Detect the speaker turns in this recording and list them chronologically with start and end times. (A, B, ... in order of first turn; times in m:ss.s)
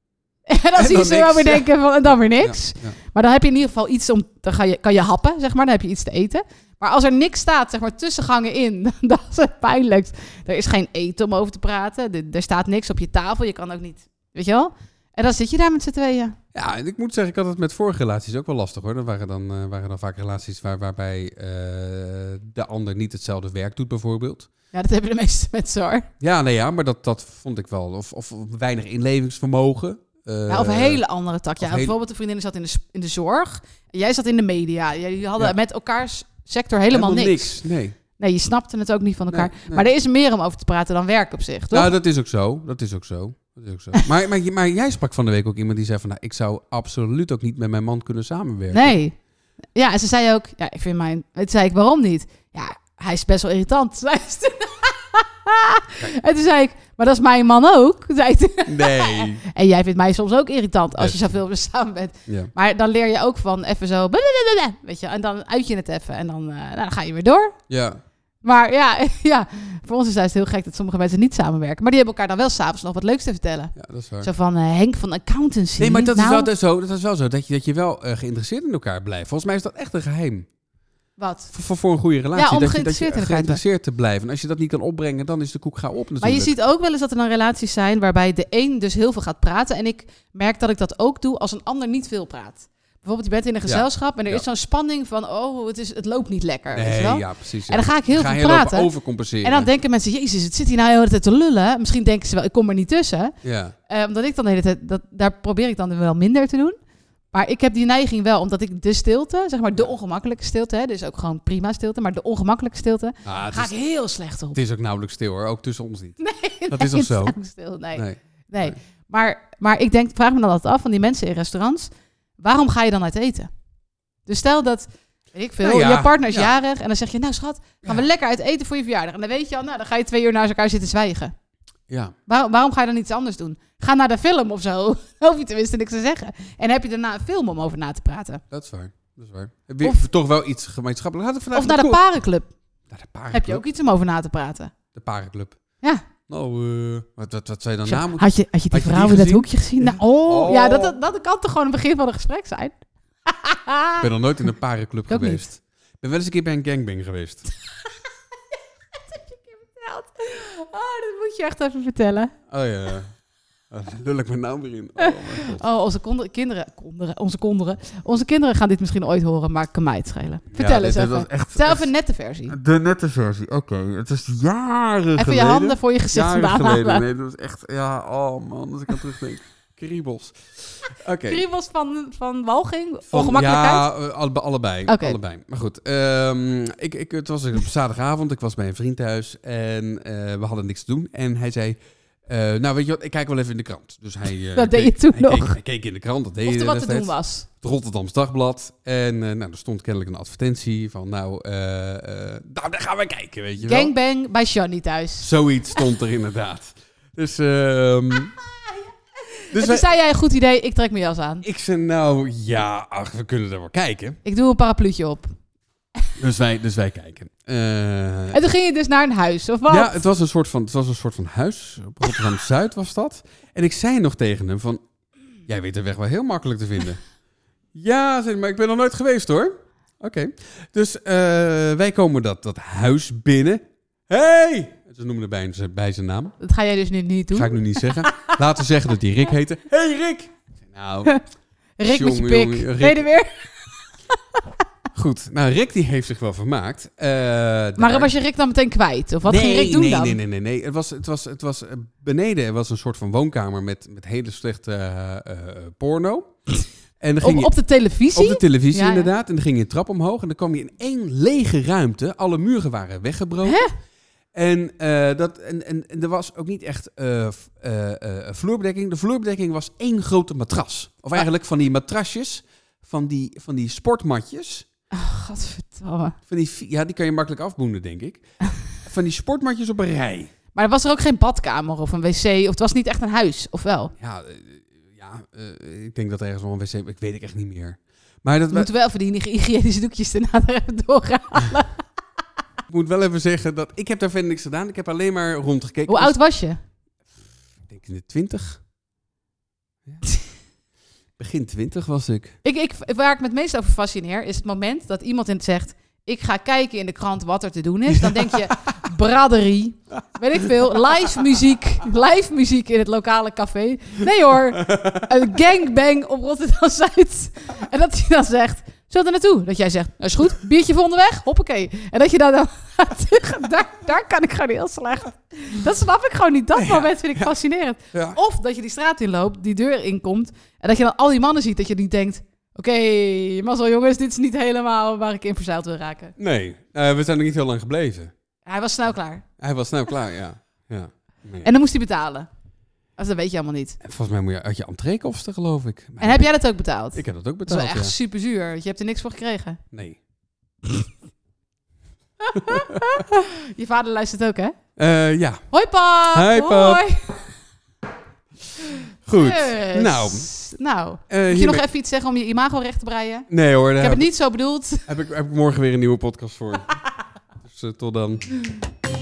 0:00.5-0:16.4 A
0:00.8-0:01.7 B
0:02.3-0:03.0 B
0:16.5-0:24.5 B
0:24.7-0:26.1 A
0:26.2-0:31.0 B
0:30.5-0:37.6 A
0:31.6-0:31.9 B
0:36.9-0:38.0 B
0:38.2-0:41.9 A
0:39.3-0:39.9 B
0:41.7-0:49.0 B
0:48.7-0:49.1 A
0:49.8-1:07.6 A
0:58.7-0:59.4 B
1:01.0-1:01.3 B
1:02.3-1:02.5 B
1:07.7-1:08.0 B
1:08.4-1:16.5 A
1:13.8-1:14.3 B
1:15.8-1:20.5 B
1:21.2-1:21.5 A
1:21.5-1:26.5 B
1:22.4-1:23.6 A
1:26.2-1:38.9 A
1:33.7-1:34.4 B
1:36.7-1:39.7 B
1:39.4-1:43.4 A
1:43.4-1:43.8 B
1:43.9-1:46.8 A
1:47.3-1:54.6 A
1:53.2-1:53.8 B
1:54.5-1:57.4 B
1:56.2-2:03.5 A
1:57.9-1:58.8 B
2:04.3-2:11.3 A
2:05.6-2:06.6 B
2:11.9-2:12.2 B
2:12.3-2:18.4 A
2:18.5-2:22.0 B
2:21.5-2:22.5 A
2:22.9-2:23.6 B
2:23.3-2:24.7 A
2:24.9-2:25.6 B
2:26.3-2:31.0 B
2:27.9-2:34.0 A
2:34.0-2:37.5 B
2:35.1-2:35.4 A
2:39.0-2:42.3 A
2:42.5-2:43.1 B
2:43.7-2:45.6 B
2:45.0-2:52.6 A
2:50.5-2:51.9 B
2:52.5-3:01.4 B
2:55.2-2:57.0 A
3:01.2-3:03.9 A
3:03.1-3:23.9 B
3:04.9-3:05.2 A
3:14.5-3:15.6 A
3:16.4-3:17.5 A
3:23.6-3:25.3 A
3:25.2-3:28.4 B
3:29.5-3:29.9 B
3:29.5-3:31.4 A
3:31.4-3:34.2 B
3:34.2-3:35.3 A
3:36.2-3:38.4 B
3:38.3-3:40.0 A
3:39.7-3:44.8 B
3:45.5-3:47.0 B
3:47.8-3:56.4 B
3:56.4-3:58.4 A
3:57.3-4:01.2 B
4:01.8-4:03.9 A
4:01.8-4:03.1 B
4:04.9-4:08.1 B
4:07.8-4:10.2 A
4:09.2-4:16.3 B
4:17.0-4:17.5 B
4:17.2-4:19.1 A
4:18.1-4:23.6 B
4:23.4-4:23.7 A
4:24.3-4:34.7 B
4:34.9-4:36.2 A
4:36.3-4:38.2 B
4:38.8-4:40.3 B
4:40.5-4:43.9 A
4:44.0-4:48.7 B
4:48.5-4:51.8 A
4:52.7-4:56.2 B
4:55.9-4:56.6 A
4:57.7-4:58.6 B
5:01.2-5:02.4 B
5:02.4-5:36.2 A
5:08.0-5:08.8 B
5:14.8-5:15.0 B
5:26.6-5:27.3 B
5:27.9-5:28.2 B
5:36.2-5:38.1 B
5:38.5-5:39.2 A
5:39.4-5:41.5 B
5:41.4-5:42.3 A
5:43.0-5:43.8 A
5:43.8-5:46.3 B
5:46.0-5:49.6 A
5:46.9-5:47.9 B
5:49.7-5:50.0 B
5:52.2-5:54.6 A
5:52.4-5:53.0 B
5:54.8-5:55.4 B
5:55.5-5:57.4 A
5:56.1-5:56.9 B
5:58.7-6:04.9 A
5:59.1-6:00.3 B
6:01.1-6:01.7 B
6:03.3-6:04.1 B
6:04.9-6:06.8 B
6:07.4-6:08.4 B